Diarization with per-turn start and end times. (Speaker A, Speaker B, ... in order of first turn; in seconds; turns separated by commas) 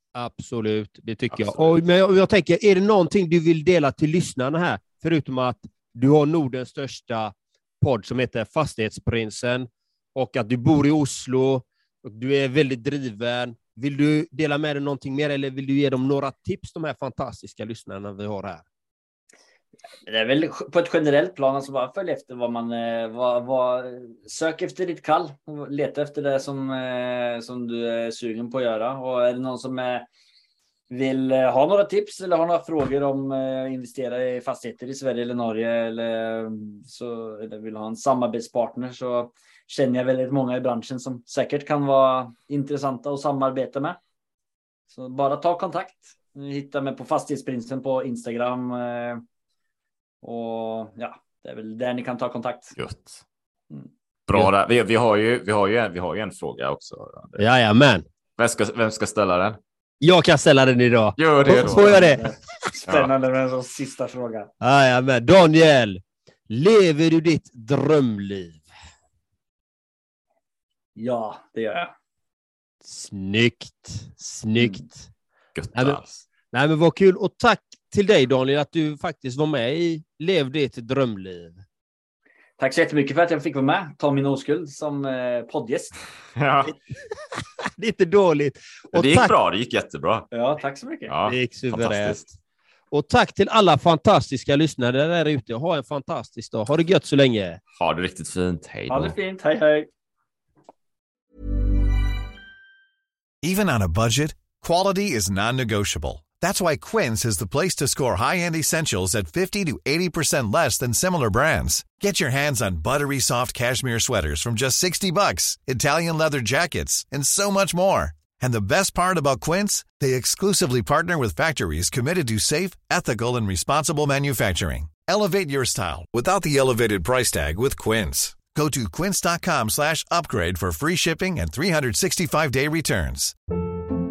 Speaker A: 0.1-18.6, Speaker B: 1.3-1.6, Speaker C: 20.1-30.1, Speaker C: 30.9-44.0, Speaker C: 44.9-49.2, Speaker C: 50.2-52.8, Speaker B: 52.8-53.2, Speaker B: 54.3-57.4, Speaker A: 57.4-58.0, Speaker B: 58.4-59.6, Speaker A: 60.0-62.2, Speaker B: 61.2-62.0, Speaker C: 61.5-64.5, Speaker A: 64.6-68.6, Speaker C: 71.0-71.9, Speaker A: 72.8-74.9, Speaker C: 74.6-74.8, Speaker B: 75.5-76.2, Speaker A: 76.5-81.6, Speaker C: 82.6-86.0, Speaker B: 86.3-86.7, Speaker A: 87.8-89.3, Speaker B: 88.9-90.3, Speaker C: 90.3-91.1, Speaker B: 91.1-92.2, Speaker A: 91.2-92.3, Speaker A: 92.9-97.6, Speaker B: 97.8-99.2, Speaker C: 98.9-99.9, Speaker D: 103.4-133.3